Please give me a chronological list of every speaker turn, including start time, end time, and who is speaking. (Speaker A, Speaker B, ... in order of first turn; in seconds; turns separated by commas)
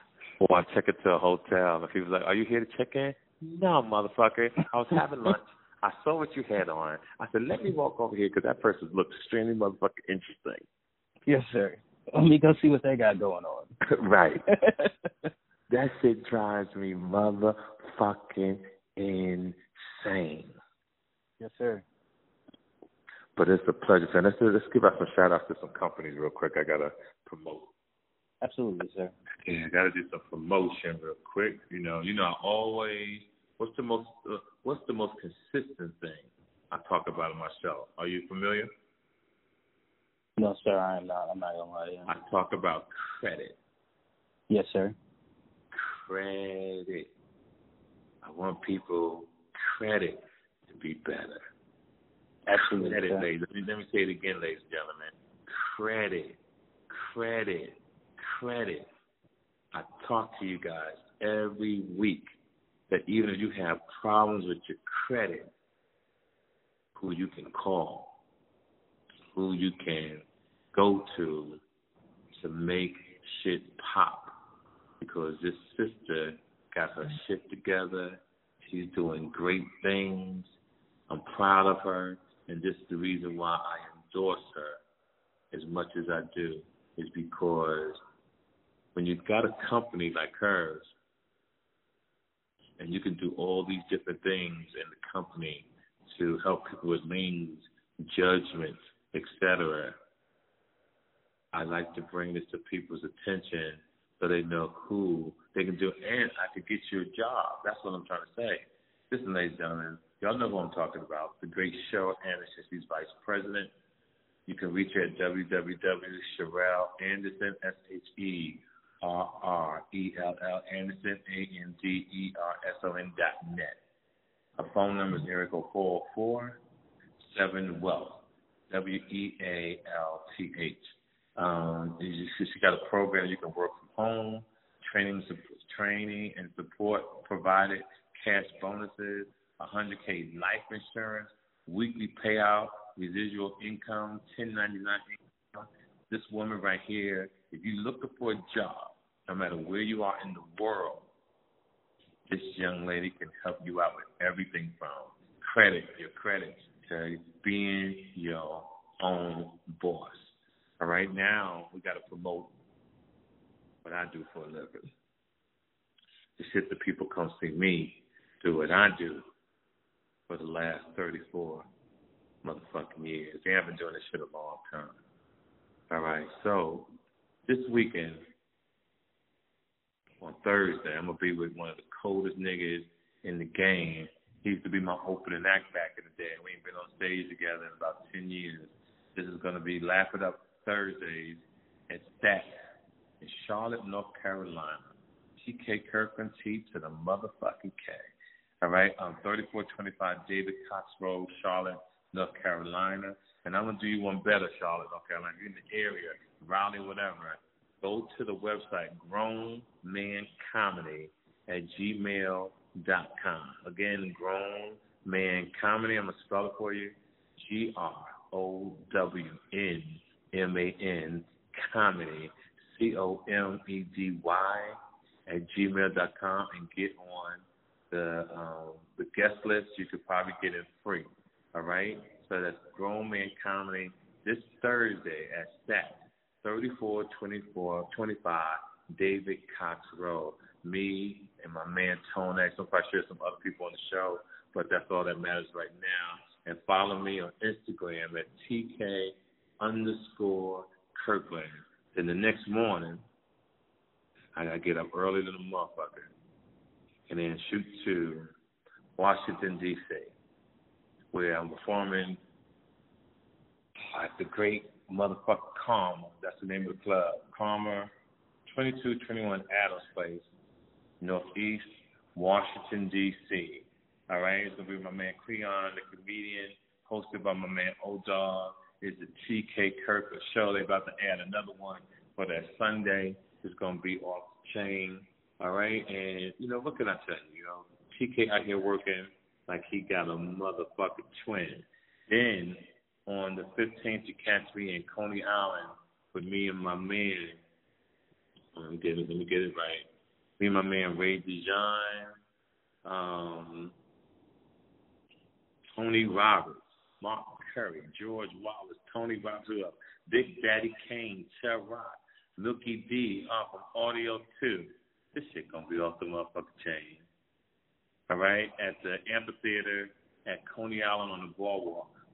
Speaker A: 0.4-10.6, Speaker B: 11.2-13.7, Speaker A: 13.8-14.5, Speaker B: 14.5-15.1, Speaker A: 15.7-20.6, Speaker B: 21.4-21.8, Speaker A: 23.4-27.7, Speaker B: 28.4-29.1, Speaker A: 29.4-38.7, Speaker B: 40.4-42.1, Speaker A: 42.1-43.6, Speaker B: 44.5-44.9, Speaker A: 45.7-47.1, Speaker A: 48.2-51.4, Speaker B: 52.4-53.2, Speaker A: 52.5-56.4, Speaker A: 56.9-58.9, Speaker A: 59.7-62.2, Speaker A: 62.9-65.5, Speaker A: 67.0-68.1, Speaker A: 69.3-71.6, Speaker A: 72.3-74.3, Speaker A: 75.0-80.5, Speaker A: 81.1-84.8, Speaker A: 85.5-88.0, Speaker A: 88.9-90.9, Speaker A: 92.8-100.0, Speaker A: 101.5-113.7, Speaker A: 114.5-123.8, Speaker A: 124.6-126.6, Speaker A: 127.3-151.1, Speaker A: 152.3-162.5, Speaker A: 163.8-164.9, Speaker A: 166.4-169.2, Speaker A: 170.3-171.7, Speaker A: 172.4-174.9, Speaker A: 175.9-176.9, Speaker A: 177.5-178.2, Speaker A: 180.2-192.6, Speaker A: 193.2-194.8, Speaker A: 195.4-198.0, Speaker A: 198.6-253.0, Speaker A: 254.3-256.1, Speaker A: 257.1-258.3, Speaker A: 259.0-260.1, Speaker A: 261.1-262.2, Speaker A: 263.9-267.9, Speaker A: 268.5-270.2, Speaker A: 271.0-297.4, Speaker A: 298.5-299.9, Speaker A: 300.4-302.1, Speaker A: 302.8-303.7, Speaker A: 305.7-317.1, Speaker A: 318.1-321.9